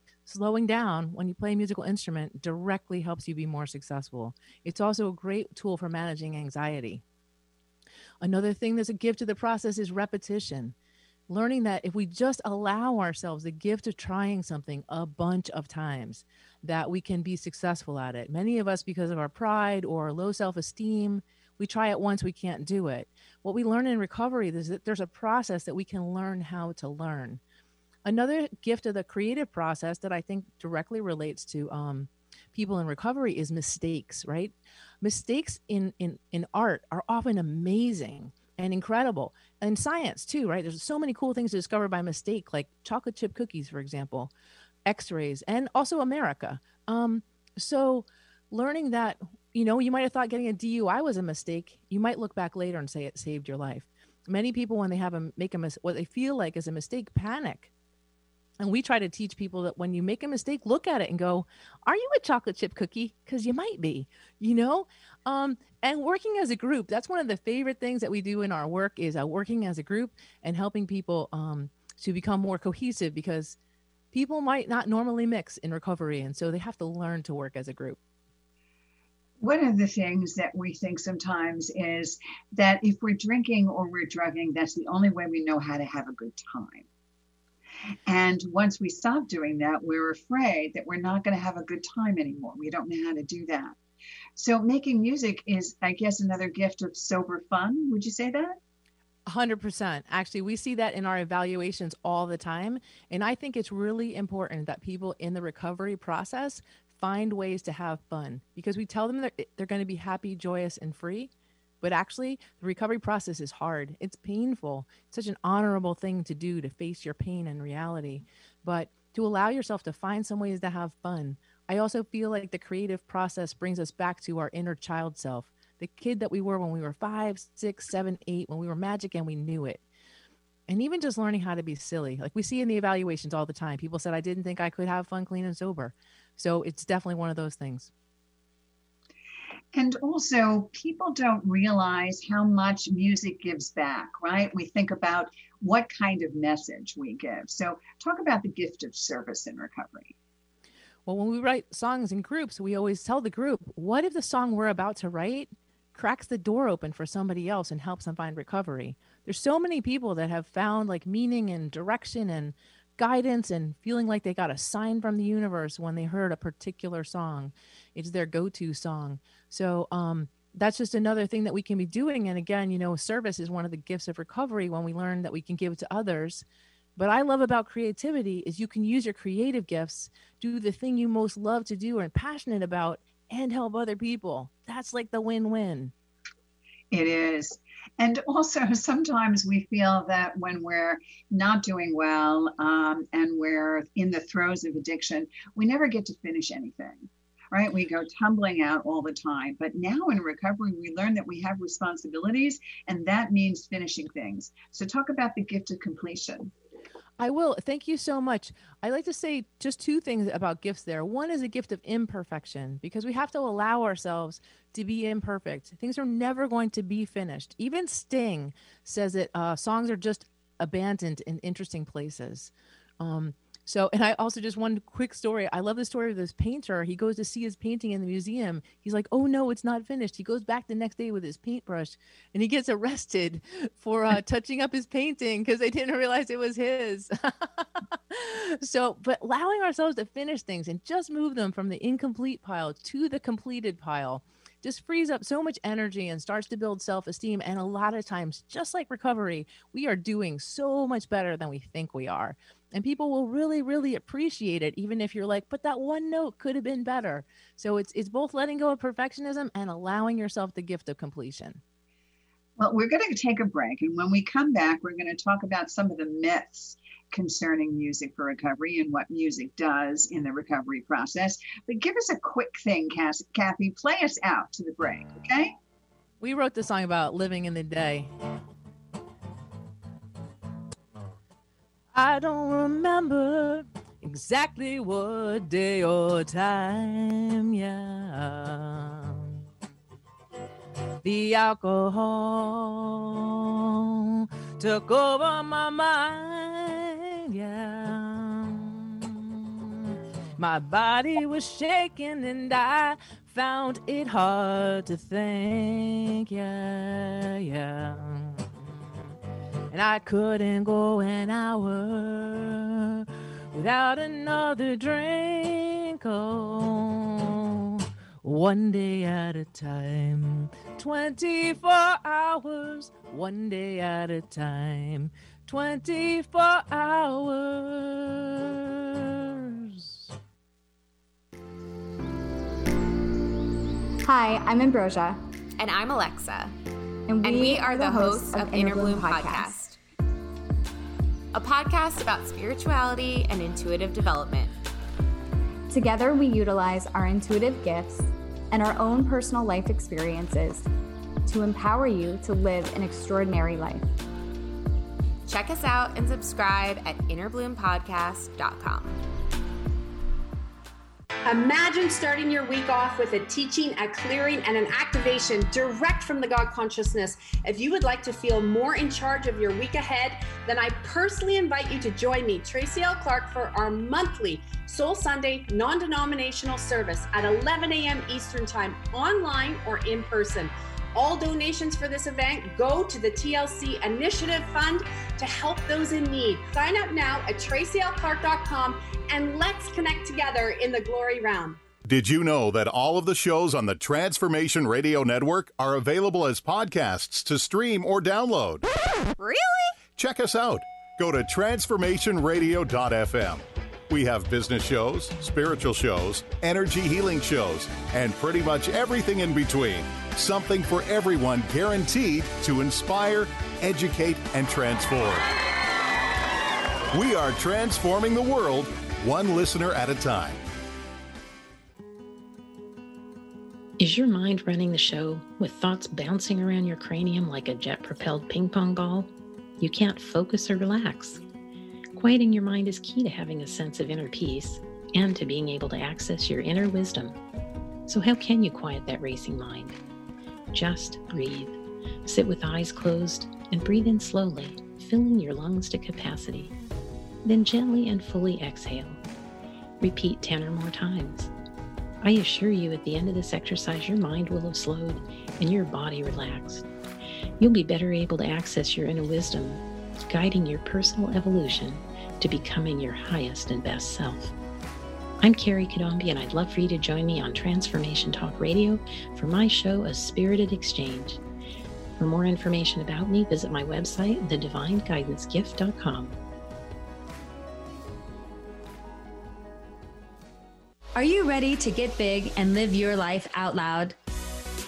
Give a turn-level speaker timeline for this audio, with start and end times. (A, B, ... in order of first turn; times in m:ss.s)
0:00.3-0:07.0 A
0:08.2-0:10.8 A
0:11.3-0:27.4 A
0:28.0-0:44.3 A
0:44.9-0:57.7 A
0:58.6-1:13.6 A
1:14.1-1:18.0 A
1:19.4-1:26.9 B
1:28.1-1:33.8 B
1:34.4-1:38.6 B
1:39.3-2:09.8 A
2:10.7-2:17.9 A
2:19.7-2:30.2 B
2:31.1-2:56.4 A
2:57.0-3:05.9 A
3:06.9-3:26.5 B
3:27.2-4:21.6 A
4:22.6-4:35.6 B
4:36.2-4:38.1 A
4:41.9-4:49.4 A
4:51.0-4:53.3 A
4:54.0-5:09.1 A
5:09.7-5:29.9 A
5:34.0-5:35.2 C
5:35.6-5:36.6 D
5:37.1-5:39.6 C
5:37.2-5:39.8 D
5:41.3-5:44.5 D
5:45.7-5:50.7 C
5:51.3-5:53.9 C
5:55.3-5:59.0 D
6:01.3-6:31.6 E
6:31.9-6:38.6 F
6:39.2-6:39.8 D
6:40.0-6:55.3 F
6:56.9-7:00.4 F
7:03.8-7:11.2 G
7:12.0-7:17.2 G
7:17.9-7:19.8 G
7:20.5-7:26.5 G
7:27.2-7:29.0 G
7:29.8-7:31.3 G
7:32.0-7:36.6 G
7:37.4-7:44.3 G
7:45.2-7:51.2 G
7:52.0-7:56.2 G
8:01.0-8:04.0 H